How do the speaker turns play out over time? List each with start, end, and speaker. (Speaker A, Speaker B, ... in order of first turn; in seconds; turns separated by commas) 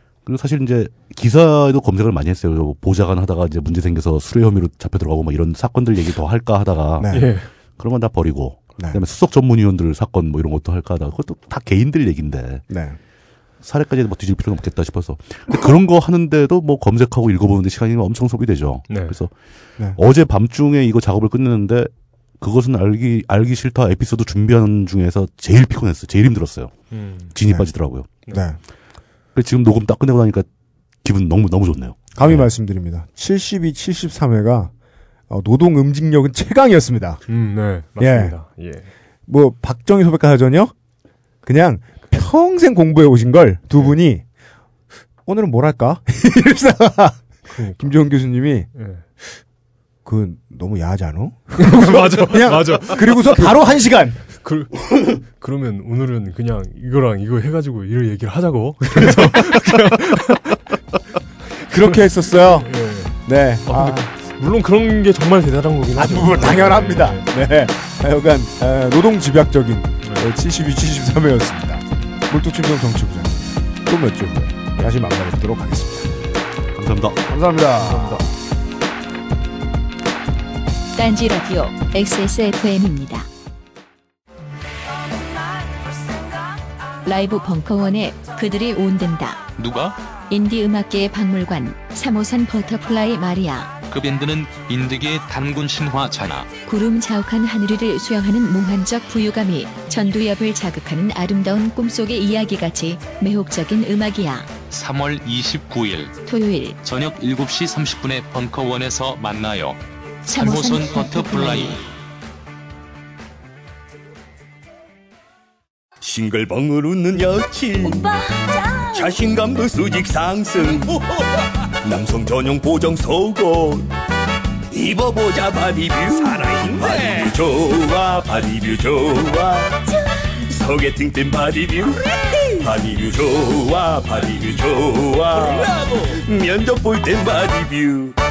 Speaker A: 0.2-7.3, Speaker B: 7.0-7.3, Speaker C: 7.1-7.5, Speaker A: 7.8-12.6, Speaker B: 12.7-13.0, Speaker A: 13.6-19.3, Speaker C: 18.9-19.1, Speaker A: 19.9-26.7, Speaker C: 26.9-27.3, Speaker A: 27.3-28.1, Speaker B: 28.3-28.6, Speaker A: 29.3-30.4, Speaker A: 31.0-32.4, Speaker B: 32.1-34.7, Speaker B: 35.3-37.2, Speaker C: 37.3-38.9, Speaker B: 38.0-38.4, Speaker B: 39.3-40.7, Speaker B: 41.4-44.2, Speaker B: 45.2-47.2, Speaker C: 47.5-47.9, Speaker B: 47.8-48.7, Speaker C: 48.7-49.0, Speaker B: 50.0-54.2, Speaker C: 51.6-60.6, Speaker B: 59.0-59.6, Speaker B: 61.7-62.7, Speaker C: 61.7-67.3, Speaker B: 63.2-64.1, Speaker B: 65.9-76.2, Speaker C: 70.0-70.3, Speaker A: 76.7-77.2, Speaker B: 77.2-78.3, Speaker C: 77.8-78.2, Speaker D: 80.9-83.3, Speaker D: 87.0-89.4, Speaker E: 89.6-90.0, Speaker D: 90.3-93.7, Speaker E: 93.9-96.5, Speaker D: 96.7-104.5, Speaker E: 104.6-106.2, Speaker D: 106.2-106.8, Speaker E: 106.8-111.8, Speaker D: 110.3-111.8, Speaker F: 116.0-121.1, Speaker D: 117.9-118.8, Speaker F: 121.8-123.9, Speaker F: 124.7-129.9, Speaker F: 130.5-138.1